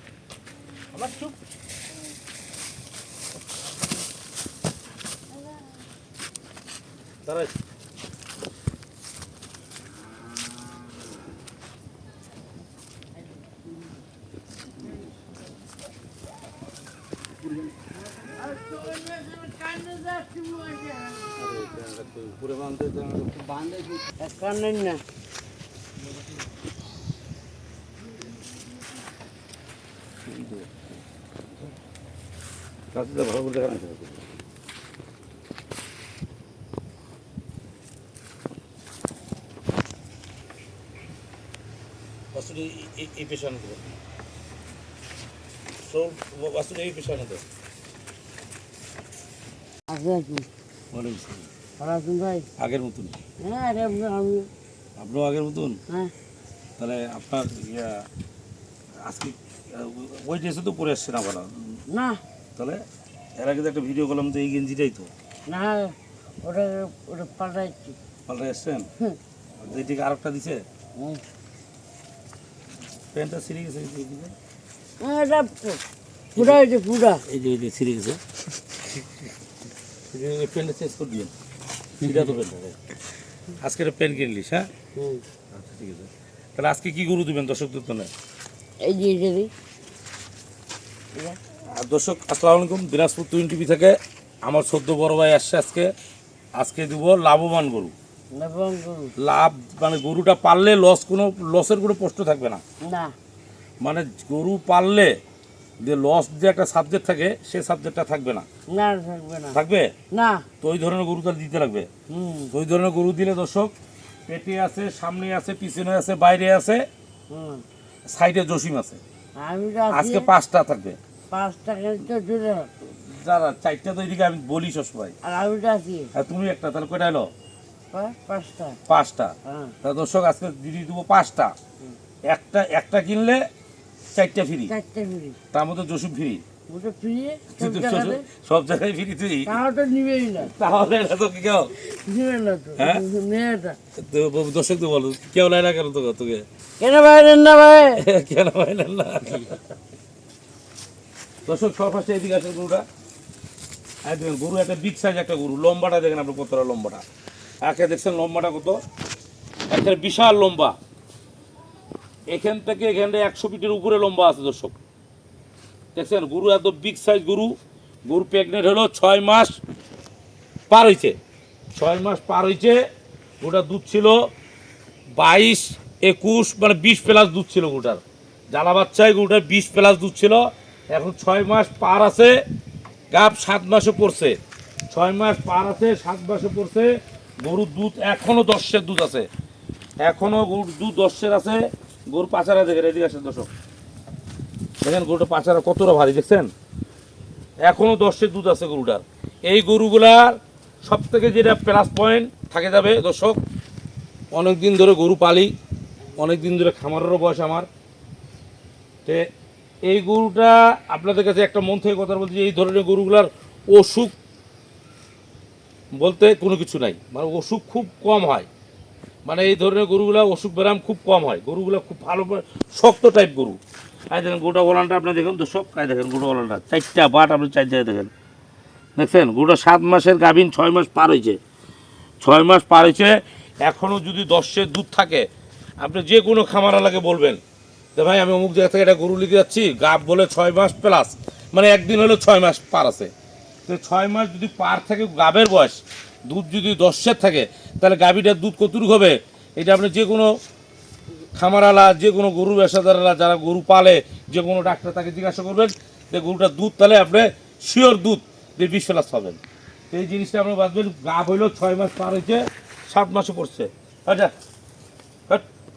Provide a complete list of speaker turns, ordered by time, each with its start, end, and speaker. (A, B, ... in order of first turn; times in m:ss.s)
0:00.9-0:01.3 A
0:07.3-0:07.5 A
0:18.2-0:21.4 B
0:21.4-0:24.0 A
0:24.2-0:25.0 B
0:30.3-0:30.7 A
0:32.9-0:34.2 A
0:42.3-0:43.9 A
0:45.8-0:47.4 A
0:49.9-0:50.5 B
0:50.9-0:51.5 A
0:51.8-0:52.5 B
0:52.6-0:53.2 A
0:53.4-0:54.5 B
0:55.0-0:55.8 A
0:56.8-0:58.0 A
0:59.0-1:01.8 A
1:01.9-1:02.2 B
1:02.6-1:02.8 A
1:03.4-1:05.1 A
1:05.5-1:08.0 B
1:08.3-1:08.9 A
1:09.6-1:10.6 A
1:11.0-1:11.2 B
1:13.1-1:14.3 A
1:15.0-1:15.8 B
1:16.4-1:16.6 A
1:16.4-1:17.2 B
1:17.3-1:18.2 A
1:18.8-1:19.1 A
1:20.1-1:21.3 A
1:22.0-1:22.8 A
1:23.6-1:24.7 A
1:25.0-1:25.2 B
1:25.5-1:28.1 A
1:28.8-1:29.5 B
1:31.8-1:35.9 A
1:36.6-1:37.9 A
1:38.3-1:39.1 B
1:39.2-1:42.6 A
1:42.8-1:43.1 B
1:43.8-1:45.1 A
1:45.8-1:48.5 A
1:48.7-1:49.6 B
1:49.5-1:49.9 A
1:50.1-1:50.4 B
1:50.6-1:51.9 A
1:52.1-1:52.5 B
1:52.5-1:53.7 A
1:54.3-1:56.8 A
1:57.3-1:57.6 B
1:58.1-1:59.0 A
1:59.4-2:00.3 B
1:59.9-2:01.0 A
2:01.3-2:02.7 B
2:03.0-2:05.2 A
2:05.2-2:06.1 B
2:06.1-2:07.3 A
2:07.9-2:08.8 B
2:08.9-2:11.5 A
2:09.5-2:09.8 B
2:12.3-2:13.4 A
2:14.1-2:14.7 A
2:14.7-2:15.4 B
2:15.5-2:16.4 A
2:16.7-2:18.2 B
2:17.6-2:19.6 A
2:19.5-2:20.5 B
2:20.4-2:21.7 A
2:21.8-2:23.8 B
2:22.8-2:23.0 A
2:24.0-2:26.4 A
2:26.8-2:28.0 B
2:28.0-2:29.6 A
2:31.5-2:32.8 A
2:34.0-2:37.0 A
2:37.6-2:38.8 A
2:39.7-2:40.8 A
2:42.3-2:44.8 A
2:46.0-2:47.5 A
2:48.1-2:49.6 A
2:50.7-2:51.2 A
2:51.8-2:52.8 A
2:53.4-2:54.2 A
2:55.2-3:02.3 A
3:03.1-3:04.4 A
3:04.9-3:06.9 A
3:07.4-3:09.3 A
3:10.0-3:13.5 A
3:14.8-3:16.5 A
3:17.6-3:23.4 A
3:24.3-3:25.5 A
3:26.2-3:27.7 A
3:29.8-3:34.1 A
3:36.0-3:38.5 A
3:39.2-3:43.6 A
3:44.1-3:48.1 A
3:49.0-3:51.4 A
3:52.2-3:55.3 A
3:55.8-3:57.4 A
3:58.0-4:03.1 A
4:03.7-4:10.3 A
4:11.4-4:19.4 A
4:19.9-4:24.3 A